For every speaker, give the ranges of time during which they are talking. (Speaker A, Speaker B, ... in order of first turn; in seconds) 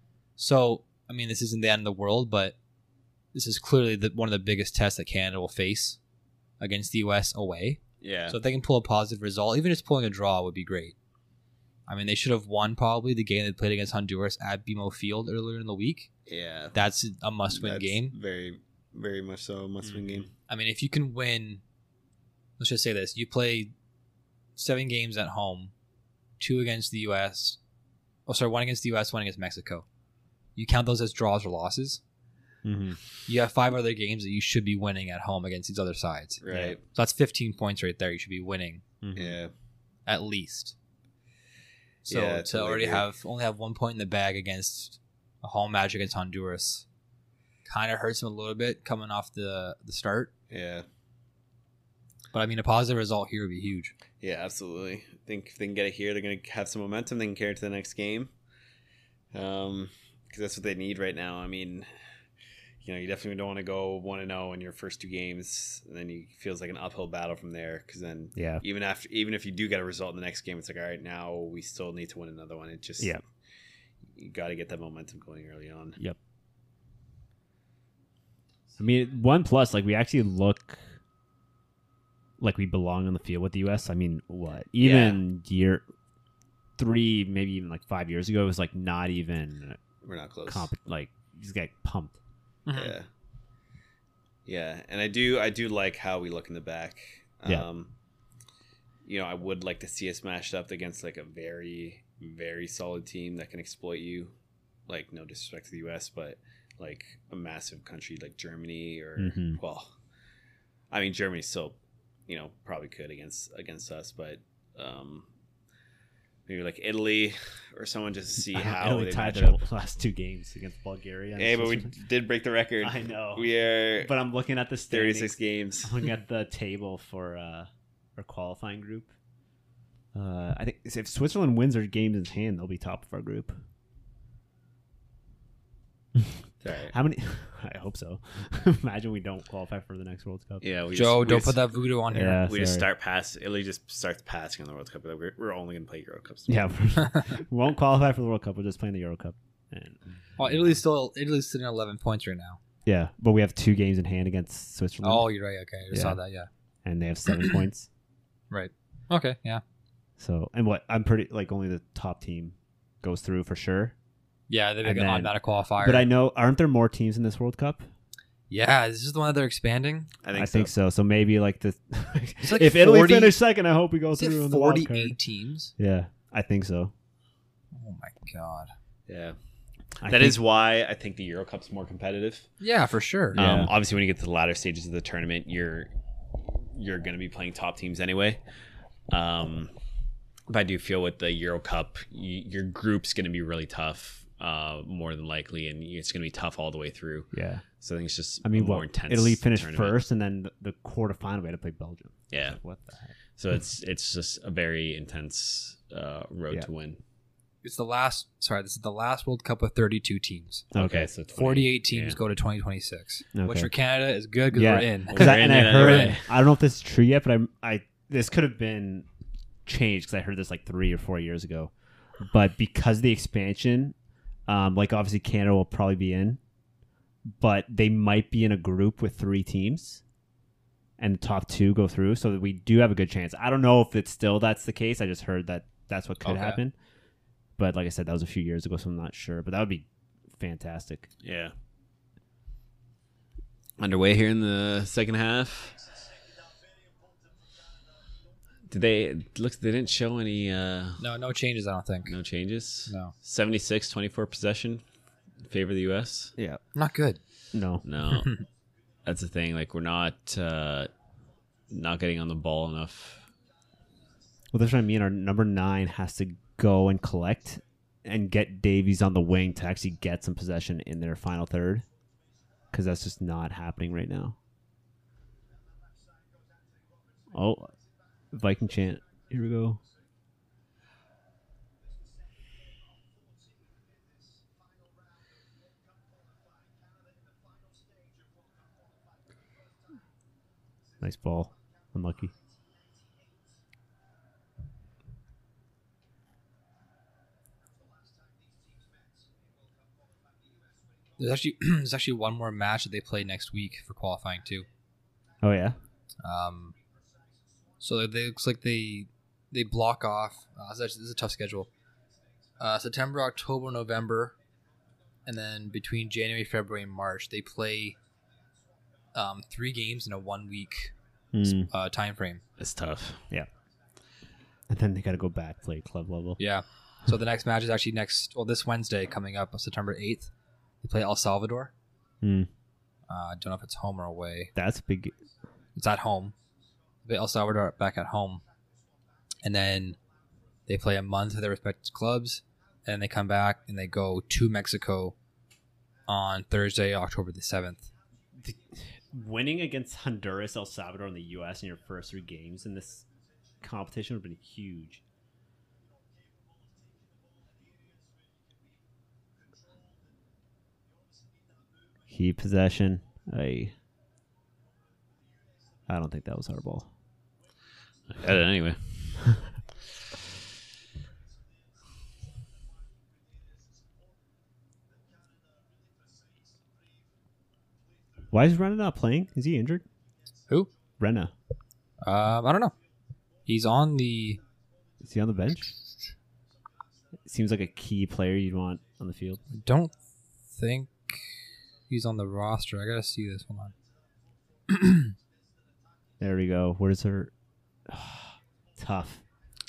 Speaker A: 0.4-2.6, 3.3-6.0, 6.6-11.0, 11.9-16.1, 16.8-18.1, 20.5-21.6, 22.6-23.7, 24.6-25.7, 26.4-27.6, 28.3-29.9, 30.6-32.0, 33.3-36.4, 36.9-38.8, 40.1-40.8, 42.0-46.9, 47.7-50.3, 52.3-54.0, 92.7-93.0, 140.9-142.4, 150.4-152.6, 155.0-156.5, 158.5-159.6, 164.5-166.1, 168.5-170.1, 172.4-173.4, 174.2-175.7, 177.7-178.7, 182.6-183.4, 207.6-210.7, 211.4-216.2, 236.2-236.6, 251.0-252.1, 252.9-253.1, 256.8-257.2, 258.1-258.4, 301.2-304.7, 306.2-306.8, 307.8-311.7, 312.6-314.3, 315.3-318.0, 319.1-320.9, 321.4-322.4, 326.4-330.3, 330.8-331.7, 333.1-334.5, 335.8-336.3, 337.1-338.4, 339.4-340.0, 340.7-345.1, 346.1-347.9, 382.0-382.7, 383.5-384.4, 389.5-389.9, 390.5-391.4, 391.9-393.7, 394.7-395.1
Speaker B: 8.0-8.4, 16.3-16.8, 17.5-20.3, 36.4-36.8, 39.1-39.5, 42.1-43.0, 50.5-50.9, 54.2-58.3, 59.3-61.9, 62.8-73.1, 74.1-76.0, 84.8-85.2, 90.0-90.7, 92.7-93.1, 94.5-97.9, 99.0-104.3, 104.9-109.9, 110.9-111.8, 112.3-115.3, 116.5-119.6, 121.4-124.1, 124.9-126.0, 136.6-136.9, 140.6-141.7, 142.4-146.6, 170.2-170.7, 179.1-179.4, 180.0-182.5, 183.3-188.4, 189.1-189.7, 190.5-197.3, 197.8-200.0, 202.3-202.6, 203.4-207.0, 210.8-212.2, 215.1-216.3, 241.2-241.5, 243.8-245.8, 248.7-251.0, 252.1-254.8, 255.5-256.3, 257.9-258.3, 259.1-260.9, 261.7-263.2, 322.6-323.2, 368.1-368.9
Speaker C: 32.6-33.0, 36.5-36.8, 39.0-39.4, 68.3-68.6, 78.8-80.8, 82.4-85.8, 86.8-89.8, 90.5-92.2, 109.2-109.6, 118.5-121.9, 122.8-129.1, 130.1-133.6, 136.9-140.7, 142.1-142.9, 146.5-150.8, 152.9-155.3, 155.9-156.2, 156.8-157.9, 160.2-163.9, 164.8-167.9, 170.3-175.2, 175.8-176.9, 180.0-180.4, 183.3-183.7, 197.3-197.7, 198.4-203.1, 210.7-211.1, 213.3-213.7, 214.5-219.1, 219.7-223.9, 224.5-226.4, 227.3-230.0, 231.0-236.7, 237.6-239.9, 240.4-241.1, 257.5-257.8, 264.5-271.9, 272.7-274.4, 277.3-277.7, 278.3-279.8, 291.0-292.3, 305.4-305.8, 321.3-321.7, 324.7-326.4, 332.2-332.5, 334.6-335.1, 348.4-353.1, 353.6-355.0, 362.1-363.7, 365.9-366.9, 378.3-379.8, 381.0-381.3, 385.0-385.7, 387.3-389.4, 396.2-397.3, 397.9-399.2